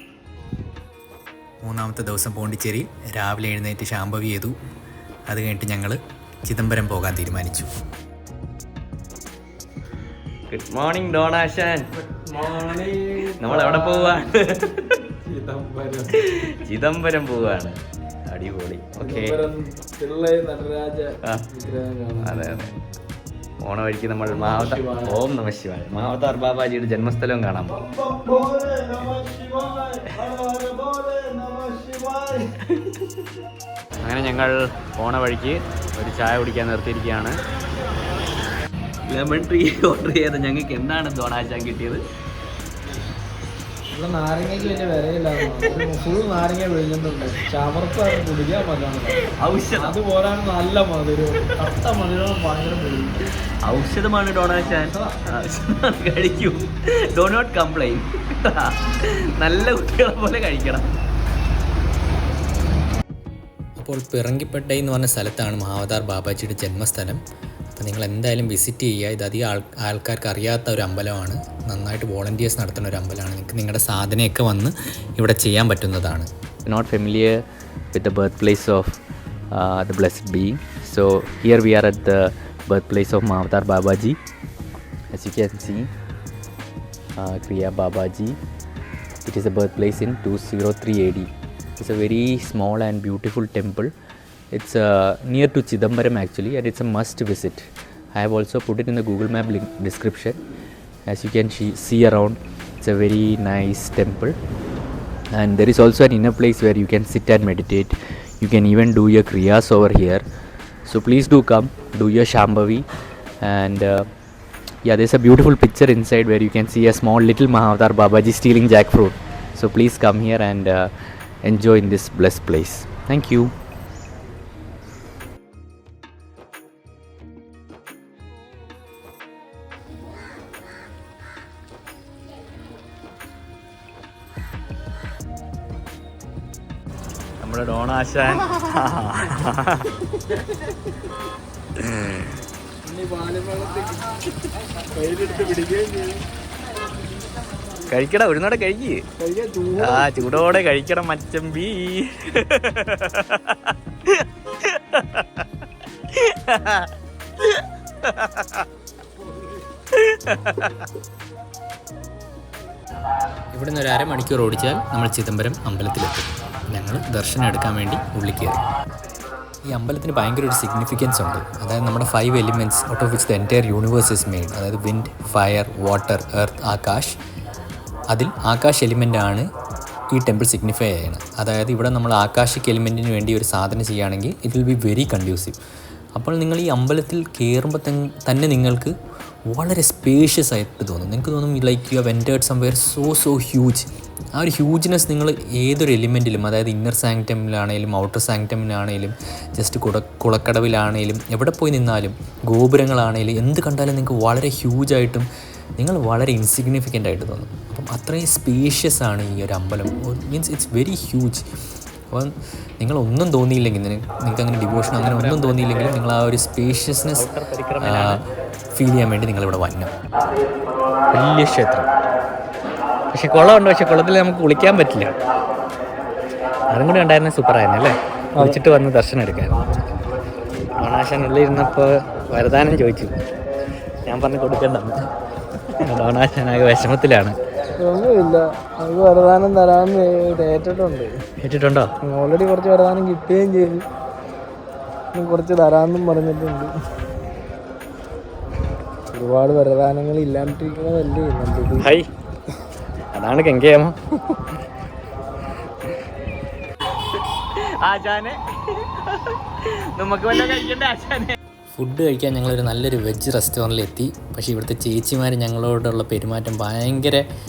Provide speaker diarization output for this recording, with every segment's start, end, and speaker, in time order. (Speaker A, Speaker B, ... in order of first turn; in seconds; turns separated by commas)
Speaker A: 1.6-4.5, Speaker A: 5.3-7.7, Speaker B: 10.5-11.9, Speaker C: 12.0-14.2, Speaker B: 12.4-15.0, Speaker C: 15.2-16.3, Speaker B: 16.2-17.8, Speaker B: 18.3-19.4, Speaker C: 19.0-22.7, Speaker B: 22.2-22.7, Speaker B: 23.6-27.8, Speaker C: 24.3-25.3, Speaker C: 27.8-32.5, Speaker B: 34.0-37.4, Speaker B: 39.1-42.0, Speaker C: 43.9-53.2, Speaker B: 49.2-49.9, Speaker B: 53.6-60.9, Speaker C: 54.5-55.2, Speaker A: 63.8-67.2, Speaker A: 67.7-76.3, Speaker B: 76.7-77.4, Speaker B: 77.9-79.0, Speaker B: 79.5-84.2, Speaker B: 85.1-85.9, Speaker B: 87.2-88.4, Speaker B: 89.3-93.9, Speaker B: 94.5-100.4, Speaker B: 101.1-104.4, Speaker B: 105.4-110.2, Speaker B: 110.9-112.9, Speaker B: 113.5-114.1, Speaker B: 114.9-123.5, Speaker B: 137.4-139.9, Speaker B: 141.8-142.4, Speaker C: 142.8-144.2, Speaker C: 144.7-146.2, Speaker B: 147.9-149.0, Speaker C: 149.2-150.5, Speaker B: 149.8-155.4, Speaker B: 156.1-156.9, Speaker B: 157.4-158.7, Speaker B: 159.9-160.9, Speaker A: 163.5-168.6, Speaker A: 169.7-177.2, Speaker A: 178.1-179.4, Speaker A: 180.1-185.6, Speaker A: 186.2-188.9, Speaker A: 189.5-211.4, Speaker A: 212.1-219.9, Speaker B: 214.7-216.0, Speaker B: 217.1-218.3, Speaker B: 221.1-221.8, Speaker B: 223.1-225.1, Speaker B: 226.7-229.6, Speaker C: 228.4-228.6, Speaker B: 230.8-233.2, Speaker B: 234.1-235.1, Speaker B: 235.8-237.4, Speaker C: 237.8-241.1, Speaker B: 241.4-241.9, Speaker C: 242.0-243.9, Speaker C: 245.1-246.7, Speaker C: 249.1-251.9, Speaker B: 251.8-252.1, Speaker B: 253.1-253.9, Speaker B: 257.4-261.4, Speaker A: 261.8-267.2